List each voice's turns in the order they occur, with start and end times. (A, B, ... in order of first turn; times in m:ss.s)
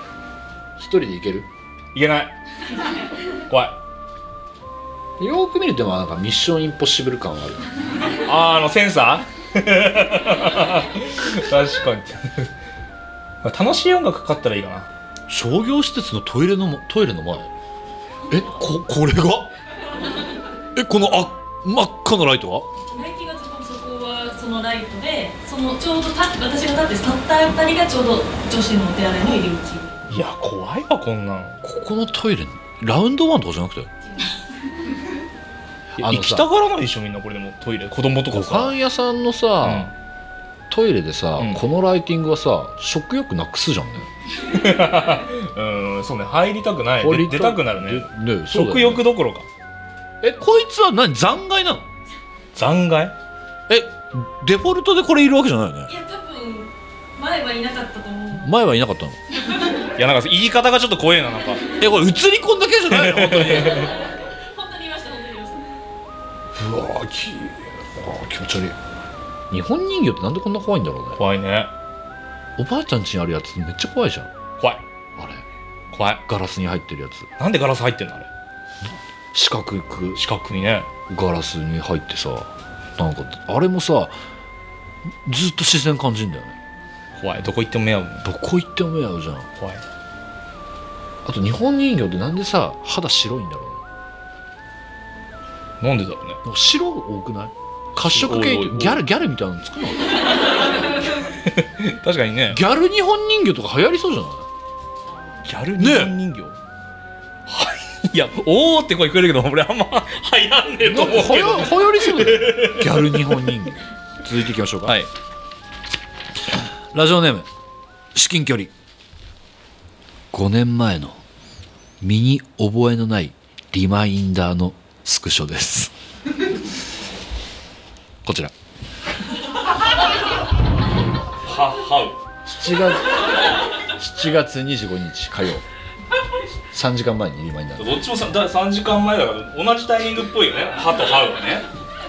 0:00.8-0:01.5 A
0:01.9-0:02.3 B
0:03.5-0:03.8 B
0:05.2-0:07.7 A
0:08.2-0:12.5 B
0:13.4-0:14.9 B
0:15.3-0:17.5 A
0:18.3-0:19.5 A
0:20.7-0:22.7 A
0:22.9-0:30.0 C
0:30.1-0:31.6 B
0:31.6-0:33.9 A
0:36.0-0:36.4 A
0:36.0-0:38.8 B
0:38.3-0:39.9 A
0:39.6-0:39.9 B
0:40.7-0:44.1 A
0:44.4-0:49.5 B
0:47.0-0:49.0 A
0:50.2-0:51.8 A
0:52.5-0:53.1 B
0:53.7-0:55.9 A
0:55.9-0:58.5 C
0:58.4-0:59.2 A
1:00.0-1:01.6 B
1:01.8-1:03.9 A
1:02.9-1:03.9 B
1:03.7-1:05.7 C
1:06.5-1:08.8 A
1:09.5-1:11.2 A
1:11.2-1:11.7 B
1:12.6-1:14.3 A
1:15.2-1:15.4 A
1:15.9-1:16.2 B
1:16.2-1:17.3 A
1:17.4-1:18.3 B
1:19.3-1:20.2 A
1:20.2-1:20.9 B
1:21.1-1:24.1 A
1:25.2-1:26.6 A
1:27.2-1:28.2 B
1:28.2-1:29.5 A
1:29.6-1:29.8 B
1:31.2-1:33.8 A
1:35.8-1:36.4 B
1:36.4-1:40.3 A
1:38.0-1:39.0 B
1:41.2-1:42.6 B
1:42.5-1:44.4 A
1:45.4-1:46.6 B
1:45.8-1:46.1 A
1:47.5-1:53.6 B
1:50.8-1:55.0 A
1:56.9-1:57.5 A
1:58.1-1:58.7 A
2:00.3-2:01.2 A
2:02.0-2:05.9 A
2:08.2-2:08.5 A
2:11.4-2:12.2 B
2:12.4-2:13.2 A
2:13.9-2:15.6 A
2:16.7-2:18.0 A
2:17.8-2:21.7 B